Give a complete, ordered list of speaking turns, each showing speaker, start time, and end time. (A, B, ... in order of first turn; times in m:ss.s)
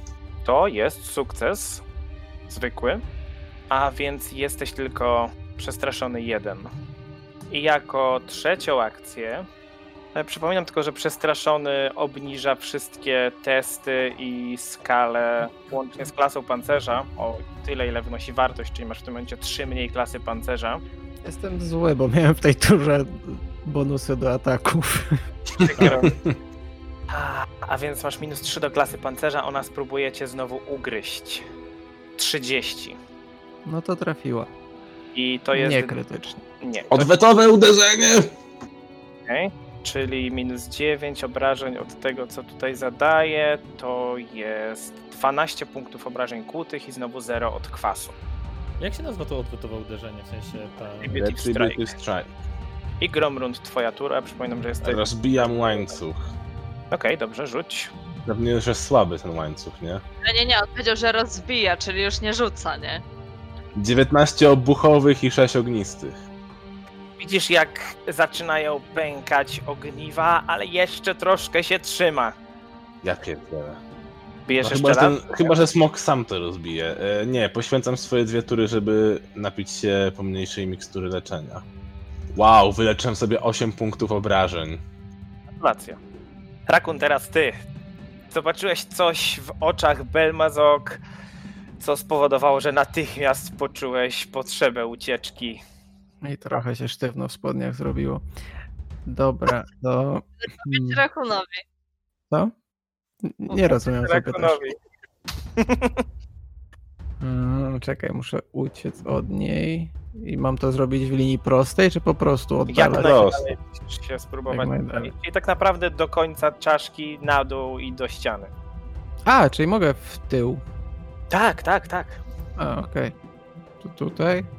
0:00.4-0:01.8 A
0:02.5-0:03.0 A
0:03.7-0:06.7 A
0:07.5-0:09.5 A
0:10.1-0:20.8 A
0:21.2-0:25.2 B
0:25.6-0:26.3 C
0:25.6-0:26.1 A
0:27.1-0:31.4 A
0:32.2-0:33.0 A
0:33.6-0:34.5 B
0:35.1-0:35.9 A
0:35.5-0:36.4 B
0:36.6-0:37.1 A
0:36.9-0:38.3 C
0:39.2-0:48.1 A
0:48.8-0:51.2 D
0:51.0-0:51.9 A
0:51.1-0:52.3 C
0:53.0-0:55.9 A
0:54.8-0:56.2 C
0:56.9-0:57.9 A
0:58.2-1:00.0 C
1:00.2-1:03.0 E
1:03.7-1:06.2 C
1:07.2-1:12.3 A
1:13.0-1:13.8 C
1:14.4-1:15.6 A
1:14.6-1:21.6 C
1:22.3-1:24.8 C
1:25.6-1:26.0 A
1:26.7-1:27.6 A
1:28.3-1:31.0 A
1:31.8-1:35.6 A
1:36.2-1:38.2 B
1:39.0-1:41.0 B
1:40.6-1:41.6 E
1:43.2-1:44.6 B
1:43.6-1:44.7 A
1:45.6-1:46.0 A
1:47.2-1:53.3 B
1:52.7-1:58.5 A
1:52.9-1:53.4 C
1:54.5-1:55.1 B
1:59.2-2:00.6 B
2:01.3-2:02.2 A
2:02.6-2:03.1 B
2:03.8-2:04.5 B